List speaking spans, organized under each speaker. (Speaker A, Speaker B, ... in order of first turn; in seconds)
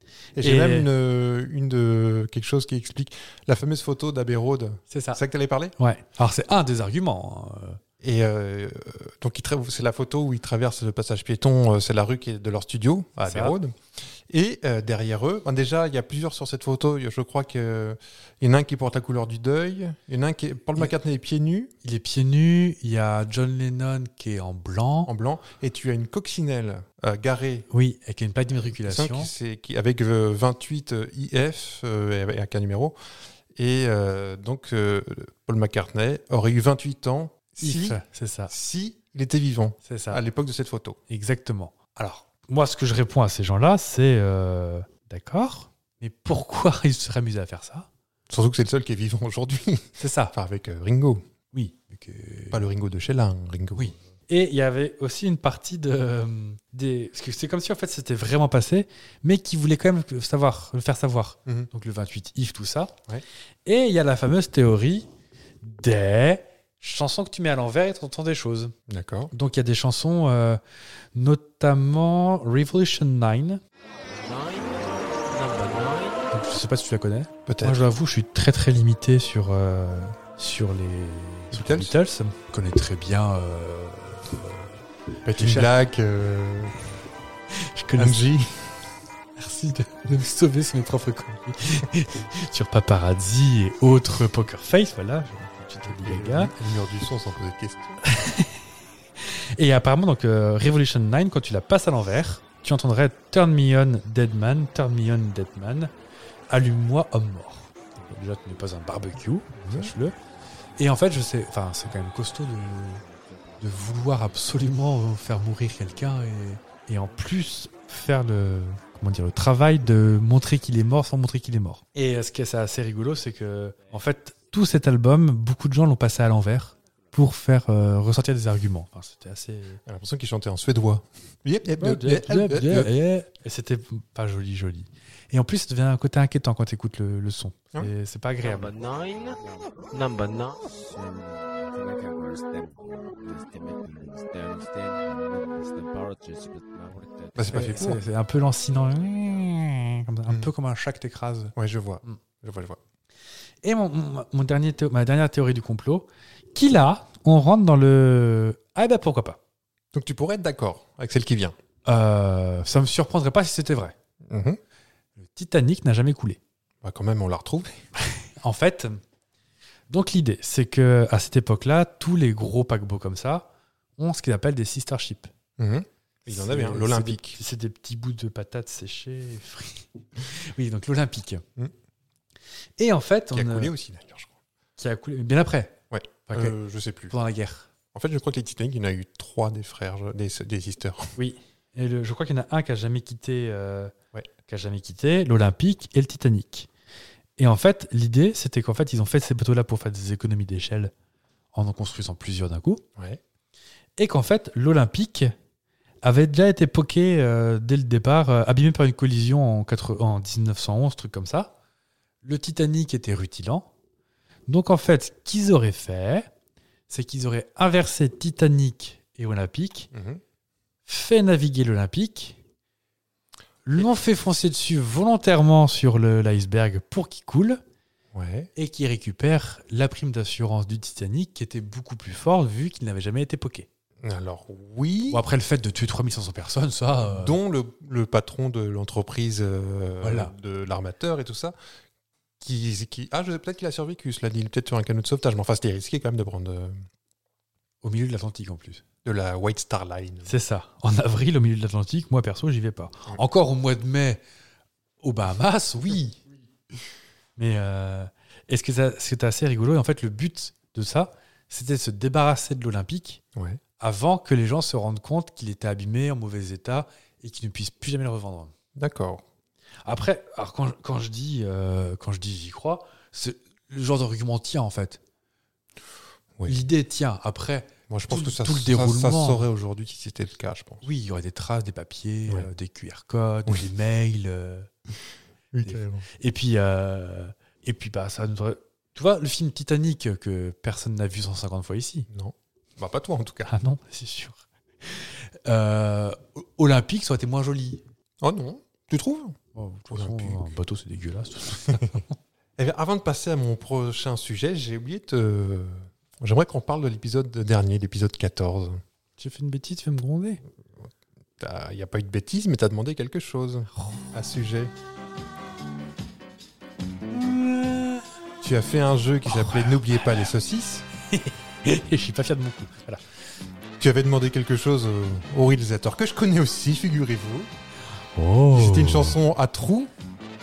Speaker A: 0.4-5.7, 8.0-21.7, 25.1-27.7, 28.9-32.9, 33.5-41.0, 48.3-51.2, 52.5-54.0, 68.9-69.3, 77.5-77.8, 81.5-82.0, 85.2-86.8, 88.0-88.7, 95.9-98.0, 109.6-109.9, 129.9-132.9, 147.3-148.0, 151.6-152.8, 159.9-161.6, 164.3-164.6, 166.8-167.8, 175.6-177.4, 183.3-184.3, 185.9-187.2, 187.9-191.1, 219.9-220.2, 228.1-228.5, 234.0-235.2, 237.1-241.6, 242.4-246.8, 249.0-250.3, 268.8-269.2, 277.9-280.9, 285.5-286.1, 292.1-293.5, 298.2-299.4, 299.9-300.5, 302.6-308.8, 311.4-314.7, 318.4-320.9, 323.8-327.5, 328.5-329.9
Speaker B: 0.4-0.9, 4.9-5.2, 5.8-7.8, 13.3-13.6, 21.8-25.1, 27.7-29.3, 37.6-38.5, 39.9-40.2, 41.1-47.9, 50.0-50.3, 51.5-52.6, 53.8-62.9, 63.6-65.1, 65.6-68.8, 69.3-70.6, 71.1-73.6, 76.3-85.7, 87.5-88.3, 89.4-96.5, 98.0-98.6, 99.2-105.9, 106.5-110.2, 110.8-113.0, 113.6-129.8, 131.8-138.7, 147.5-151.5, 153.6-159.4, 161.9-163.9, 165.2-166.4, 168.1-169.0, 169.9-175.3, 176.3-181.4, 182.8-183.7, 184.8-185.8, 186.3-186.6, 187.1-187.7, 191.2-193.9, 194.5-196.7, 197.4-200.9, 201.5-202.8, 204.0-205.3, 206.0-211.5, 212.2-213.7, 214.5-216.3, 216.9-219.9, 220.9-222.4, 223.7-227.6, 228.6-233.7, 235.1-237.4, 240.0-240.3, 247.8-248.8, 250.3-254.2, 255.0-256.2, 257.4-263.2, 263.8-268.5, 269.9-275.0, 276.5-279.5, 280.8-284.7, 285.6-292.1, 293.5-297.8, 299.5-302.2, 309.2-310.4, 317.1-318.1, 319.3-320.3, 321.1-323.0, 328.1-329.2
Speaker C: 74.1-76.3, 113.1-113.4, 138.4-147.7